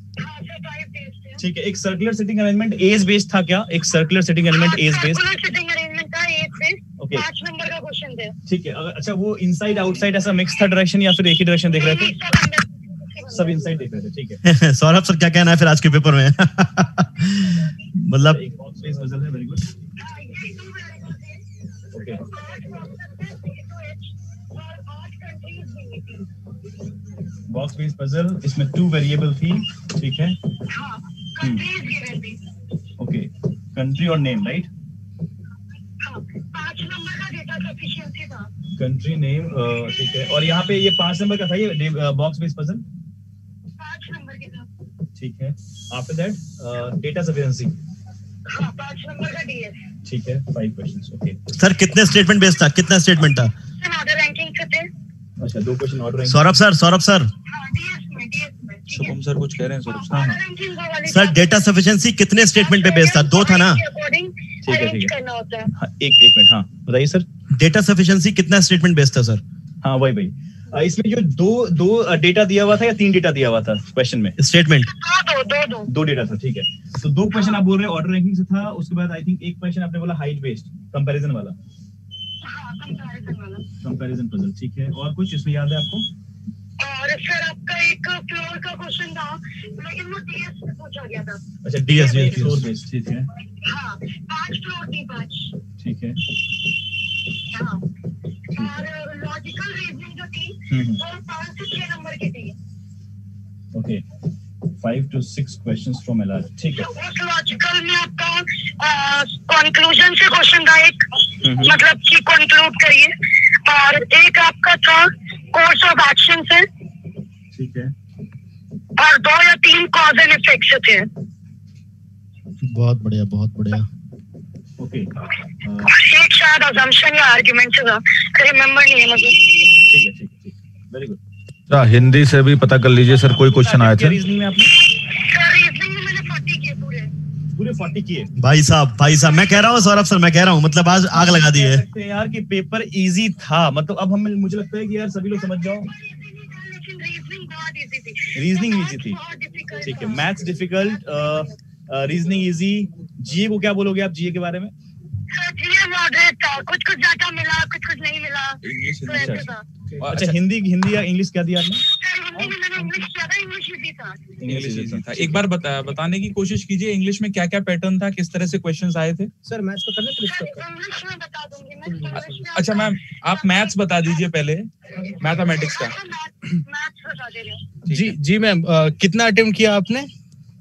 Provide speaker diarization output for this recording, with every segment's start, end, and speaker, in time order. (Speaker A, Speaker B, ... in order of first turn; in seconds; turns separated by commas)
Speaker A: 0.2-1.4, Speaker B: 1.4-5.2, Speaker A: 4.5-8.3, Speaker B: 7.0-7.2, Speaker B: 8.4-12.3, Speaker A: 11.7-13.6, Speaker B: 13.3-14.4, Speaker C: 14.4-18.4, Speaker B: 18.3-19.7, Speaker A: 20.0-26.3, Speaker B: 21.9-22.2, Speaker B: 27.5-30.4, Speaker A: 30.7-32.4, Speaker B: 31.4-31.6, Speaker B: 33.0-34.7, Speaker A: 36.0-38.5, Speaker B: 38.8-42.8, Speaker A: 43.8-44.7, Speaker B: 45.1-47.8, Speaker A: 48.5-49.8, Speaker B: 50.0-51.4, Speaker C: 51.5-53.5, Speaker A: 53.8-54.9, Speaker B: 55.4-56.4, Speaker C: 56.2-57.3, Speaker A: 57.5-61.5, Speaker B: 58.9-60.4, Speaker C: 61.0-63.8, Speaker A: 62.5-65.7, Speaker B: 64.6-65.1, Speaker B: 65.7-67.2, Speaker C: 67.5-69.4, Speaker B: 69.8-74.3, Speaker C: 74.4-74.9, Speaker A: 74.8-75.9, Speaker B: 75.9-81.5, Speaker A: 77.3-77.6, Speaker A: 82.4-83.7, Speaker B: 83.8-86.1, Speaker A: 86.8-92.6, Speaker B: 91.6-93.3, Speaker A: 93.6-95.5, Speaker B: 95.8-96.2, Speaker A: 97.5-97.9, Speaker A: 98.5-102.5, Speaker B: 98.5-98.8, Speaker B: 100.7-101.0, Speaker B: 103.7-104.0, Speaker B: 104.8-106.9, Speaker A: 106.8-116.7, Speaker B: 111.4-111.7, Speaker B: 117.5-117.9, Speaker A: 119.0-121.1, Speaker C: 122.6-123.9, Speaker B: 124.8-125.1, Speaker B: 125.6-125.9, Speaker A: 125.8-129.8, Speaker B: 129.8-131.2, Speaker D: 131.7-134.2, Speaker B: 133.3-134.7, Speaker A: 134.9-137.1, Speaker B: 137.5-138.3, Speaker C: 138.4-141.8, Speaker B: 141.1-145.9, Speaker A: 145.8-151.5, Speaker B: 148.3-149.2, Speaker B: 149.8-154.7, Speaker A: 155.3-159.7, Speaker B: 158.6-161.8, Speaker E: 159.9-160.3, Speaker F: 160.1-160.3, Speaker A: 161.9-164.3, Speaker F: 164.4-169.3, Speaker B: 164.4-165.4, Speaker E: 169.4-170.7, Speaker A: 170.3-174.2, Speaker E: 171.8-172.5, Speaker F: 172.2-175.9, Speaker A: 175.0-177.8, Speaker B: 177.8-178.1, Speaker G: 177.8-180.1